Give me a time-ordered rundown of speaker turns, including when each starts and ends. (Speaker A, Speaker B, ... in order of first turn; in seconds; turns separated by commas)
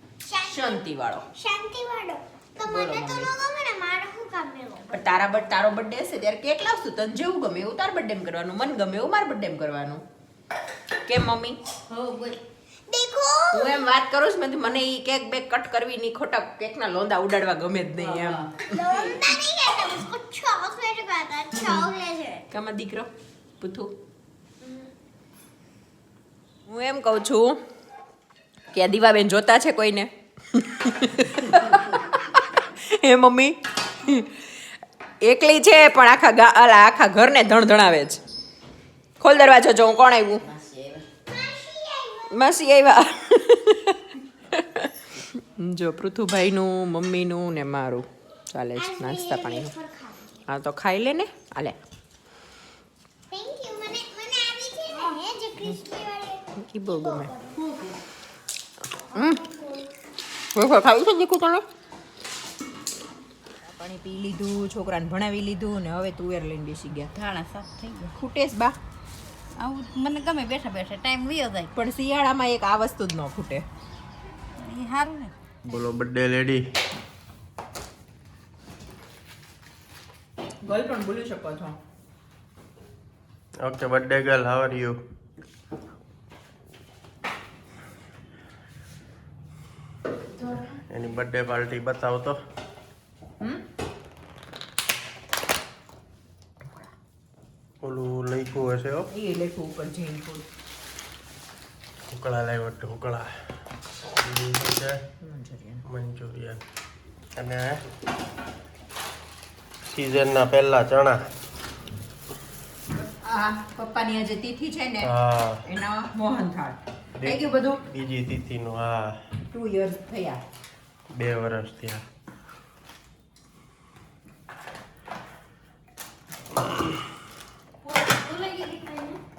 Speaker A: 0.2-5.2, Speaker B: 0.5-1.3, Speaker B: 2.6-3.3, Speaker B: 4.9-10.0, Speaker B: 11.1-11.6, Speaker C: 11.9-12.4, Speaker A: 12.9-13.9, Speaker B: 13.5-18.5, Speaker C: 18.0-19.1, Speaker A: 18.7-22.5, Speaker B: 22.5-23.9, Speaker B: 26.7-27.6, Speaker B: 28.7-34.5, Speaker C: 31.5-31.9, Speaker B: 35.2-38.2, Speaker B: 39.2-40.4, Speaker C: 40.4-41.0, Speaker A: 41.3-42.5, Speaker B: 42.3-49.7, Speaker A: 48.8-50.5, Speaker B: 50.5-51.8, Speaker A: 53.3-57.6, Speaker B: 56.6-57.3, Speaker C: 57.5-58.0, Speaker B: 59.1-59.4, Speaker A: 59.1-59.9, Speaker B: 60.5-61.6, Speaker B: 63.6-67.1, Speaker C: 67.1-68.1, Speaker B: 68.2-68.8, Speaker C: 69.6-71.7, Speaker B: 71.7-73.7, Speaker C: 74.6-75.8, Speaker D: 75.7-76.7, Speaker B: 80.6-81.8, Speaker D: 83.6-85.0, Speaker D: 90.9-92.4, Speaker D: 97.8-99.1, Speaker B: 99.1-100.5, Speaker D: 102.1-103.3, Speaker D: 104.1-105.0, Speaker B: 105.2-105.8, Speaker D: 105.9-106.6, Speaker D: 107.4-107.8, Speaker D: 109.9-111.2, Speaker B: 112.9-115.1, Speaker D: 115.0-115.6, Speaker B: 115.7-117.8, Speaker D: 117.2-119.2, Speaker B: 119.5-120.4, Speaker D: 121.1-122.0, Speaker C: 127.8-129.2